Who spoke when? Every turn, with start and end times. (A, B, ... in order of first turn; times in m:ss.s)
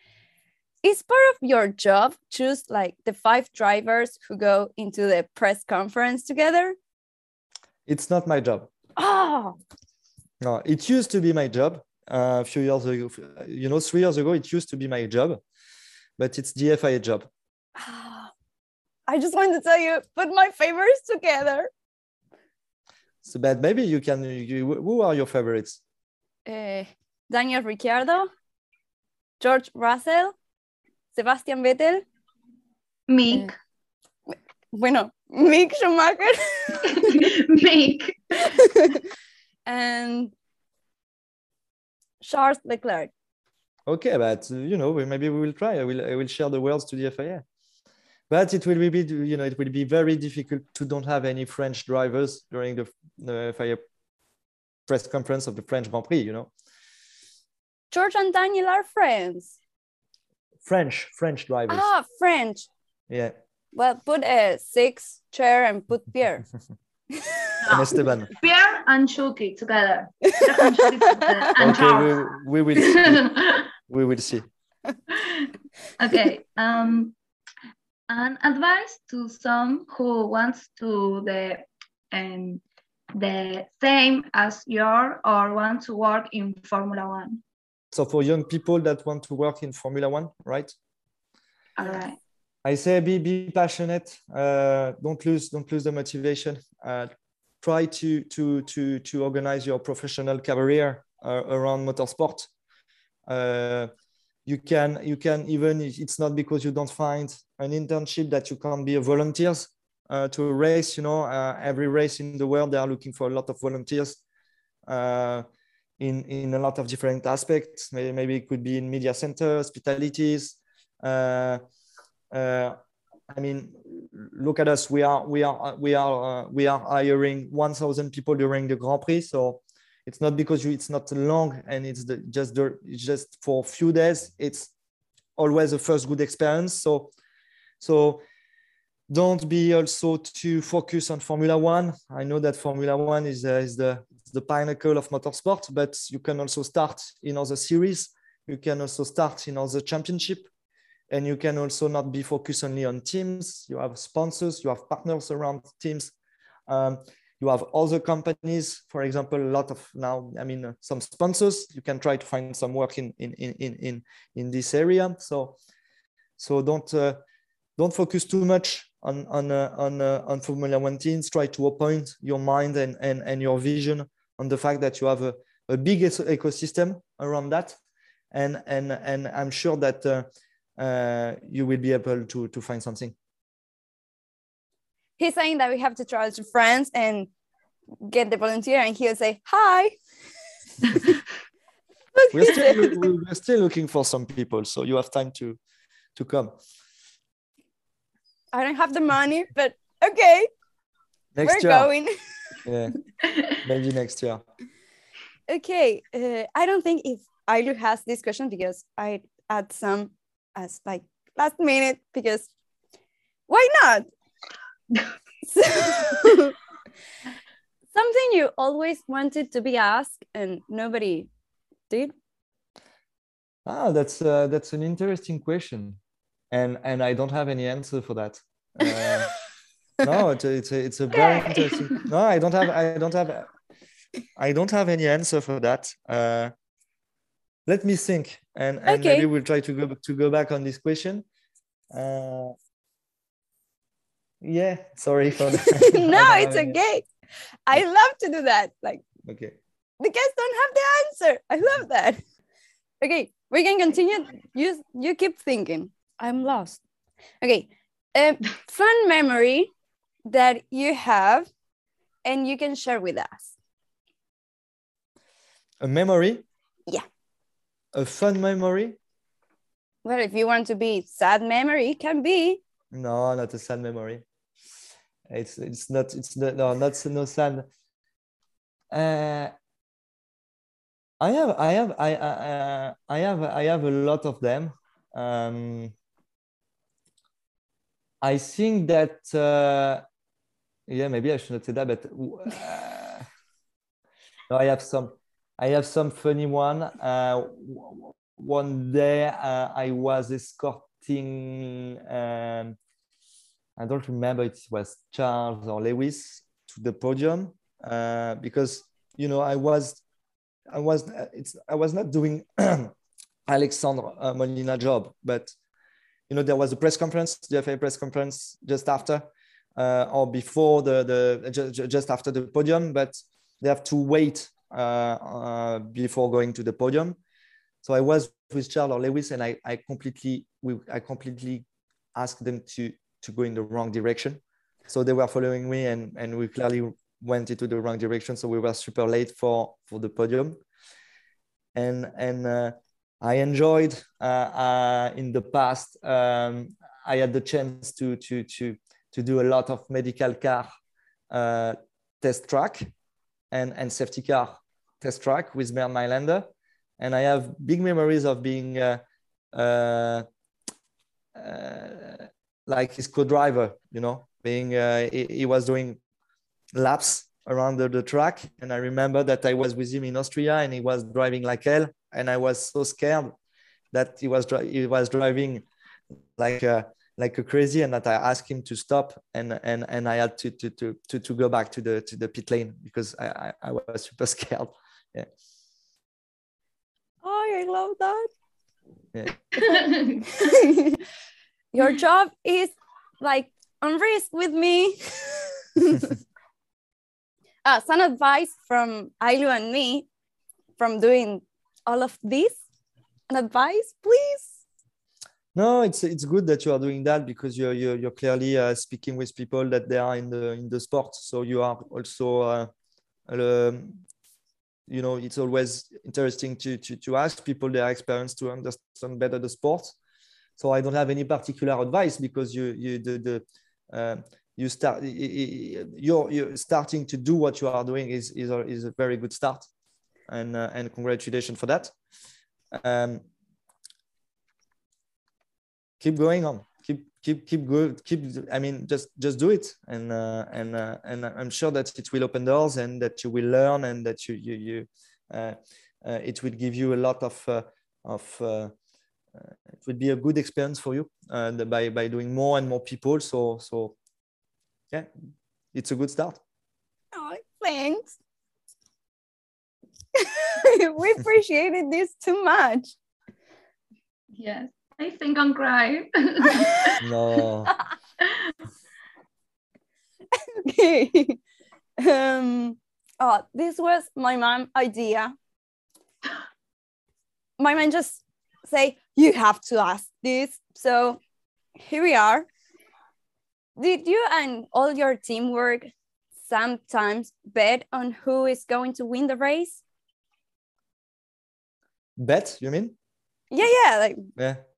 0:00.8-0:06.8 A
0:07.9-0:08.7 B
0:09.0-0:09.6 A
0:10.4-0:15.4 B
0:16.2-0:17.3 B
0:17.8-0:18.3 A
0:19.1-0:21.7 A
0:23.2-0:25.8 B
0:26.5-0:28.3 A
0:29.4-0:30.4 A
0:31.1-0:32.0 A
0:33.1-0:33.5 C
0:34.3-0:37.2 A
0:36.9-0:38.5 C
0:38.4-0:39.0 A
0:39.7-0:40.3 A
0:42.2-0:43.1 A
0:43.9-0:47.4 B
0:48.3-0:53.8 B
0:54.9-0:56.5 B
0:57.9-0:59.6 A
1:00.6-1:01.9 B
1:01.7-1:02.7 A
1:03.7-1:06.4 A
1:07.2-1:07.5 A
1:07.6-1:12.2 C
1:07.7-1:08.3 B
1:10.3-1:11.3 A
1:11.6-1:14.5 B
1:12.8-1:13.7 C
1:15.1-1:17.1 C
1:18.1-1:22.6 C
1:23.1-1:27.4 C
1:27.9-1:30.7 B
1:31.8-1:32.2 C
1:32.6-1:37.1 B
1:37.6-1:42.5 B
1:43.3-1:43.9 B
1:44.5-1:54.2 B
1:54.9-1:55.5 B
1:56.0-2:01.6 B
2:02.3-2:02.8 B
2:03.3-2:14.7 B
2:15.4-2:17.1 B
2:17.8-2:18.2 B
2:19.1-2:30.5 B
2:31.1-2:36.1 B
2:36.7-2:45.6 B
2:46.4-2:47.2 B
2:47.8-2:57.8 B
2:58.3-3:00.3 B
3:00.8-3:03.2 B
3:05.2-3:07.3 A
3:08.0-3:10.0 A
3:10.8-3:11.2 A
3:12.2-3:13.0 A
3:12.3-3:15.6 B
3:16.2-3:16.6 B
3:18.5-3:20.5 A
3:21.4-3:21.9 B
3:21.4-3:22.1 A
3:22.6-3:23.0 B
3:23.6-3:24.4 B
3:25.5-3:32.5 A
3:33.5-3:34.1 A
3:35.5-3:36.6 A
3:37.9-3:41.3 A
3:43.7-3:46.0 B
3:46.5-3:49.3 B
3:50.0-3:53.5 B
3:51.1-3:52.0 C
3:54.4-3:56.5 B
3:57.7-4:01.3 B
3:58.9-3:59.3 A
4:01.9-4:02.6 B
4:04.4-4:06.8 B
4:05.5-4:07.1 A
4:07.7-4:09.0 A
4:09.2-4:09.6 B
4:10.0-4:12.2 A
4:13.0-4:16.8 A
4:17.4-4:19.7 A
4:20.3-4:21.5 A
4:22.3-4:23.5 A
4:25.8-4:26.4 B
4:28.0-4:29.0 B
4:30.0-4:32.6 A
4:32.9-4:34.2 B
4:35.3-4:37.7 B
4:38.9-4:39.5 B
4:41.2-4:45.9 B
4:48.2-4:50.0 B
4:50.9-4:53.3 B
4:54.5-5:02.8 B
5:03.8-5:10.0 B
5:10.7-5:12.9 B
5:13.5-5:15.6 B
5:16.3-5:19.2 B
5:19.8-5:27.2 B
5:27.8-5:40.6 B
5:41.8-5:50.7 B
5:51.3-5:52.9 B
5:53.5-5:56.5 B
5:57.0-5:59.0 B
5:59.5-6:00.2 B
6:01.4-6:06.0 B
6:06.7-6:13.4 B
6:13.9-6:15.7 B
6:16.4-6:25.3 B
6:27.2-6:28.3 A
6:29.6-6:30.2 C
6:29.6-6:31.0 A
6:31.7-6:36.1 A
6:37.6-6:40.1 A
6:40.8-6:42.6 A
6:43.3-6:44.6 A
6:45.5-6:52.7 B
6:53.3-6:54.0 B
6:54.9-6:59.9 B
7:00.6-7:09.7 B
7:10.3-7:11.9 B
7:12.7-7:13.3 B
7:16.0-7:28.7 B
7:29.4-7:34.0 B
7:35.7-7:36.4 B
7:37.1-7:38.1 A
7:40.2-7:43.0 A
7:44.4-7:47.0 C
7:47.0-7:47.7 B
7:48.2-7:48.5 C
7:50.3-7:51.4 A
7:52.0-7:55.3 A
7:57.6-8:01.2 A
8:01.8-8:02.5 A
8:03.8-8:09.8 A
8:12.2-8:13.0 B
8:13.5-8:14.3 A
8:14.4-8:14.6 B